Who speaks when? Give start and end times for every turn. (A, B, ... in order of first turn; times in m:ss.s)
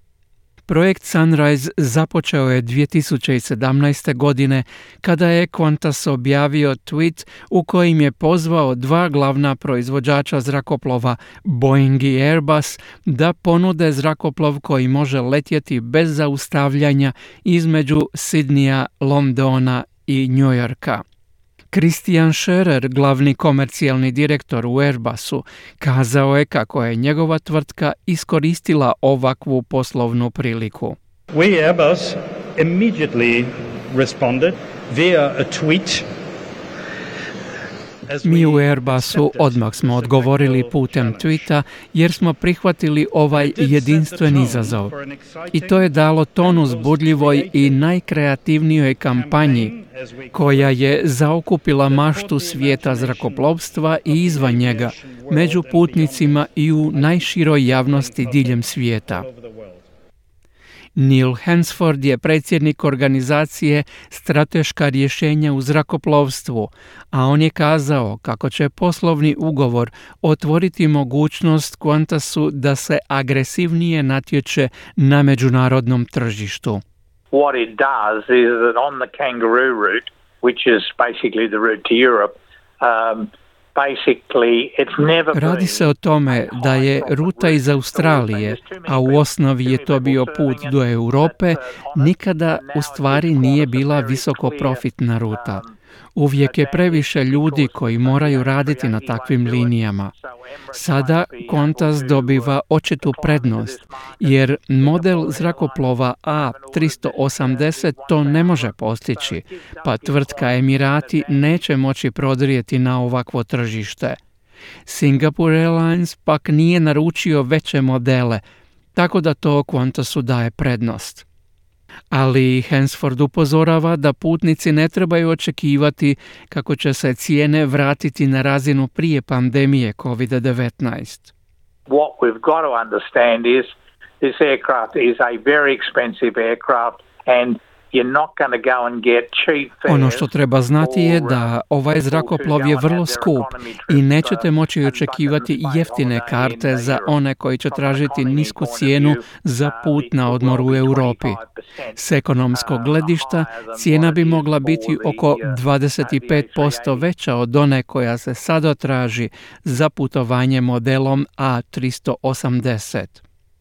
0:00.7-0:21.0 A
0:21.7-0:31.0 A
0:31.3-0:36.1 B
0:38.0-0:41.5 B
0:38.2-0:44.9 A
0:43.3-0:47.8 B
0:45.5-0:49.7 A
0:49.1-0:50.8 B
0:50.3-0:59.2 A
0:51.8-0:59.8 B
1:01.0-1:16.8 A
1:17.3-1:35.7 C
1:25.3-1:35.6 A
1:36.2-1:40.1 A
1:36.4-1:51.6 C
1:40.7-1:54.2 A
1:54.8-1:58.4 A
1:58.9-2:01.2 A
2:02.1-2:11.3 A
2:11.9-2:27.2 C
2:19.9-2:31.4 A
2:27.7-2:37.1 C
2:32.0-2:43.2 A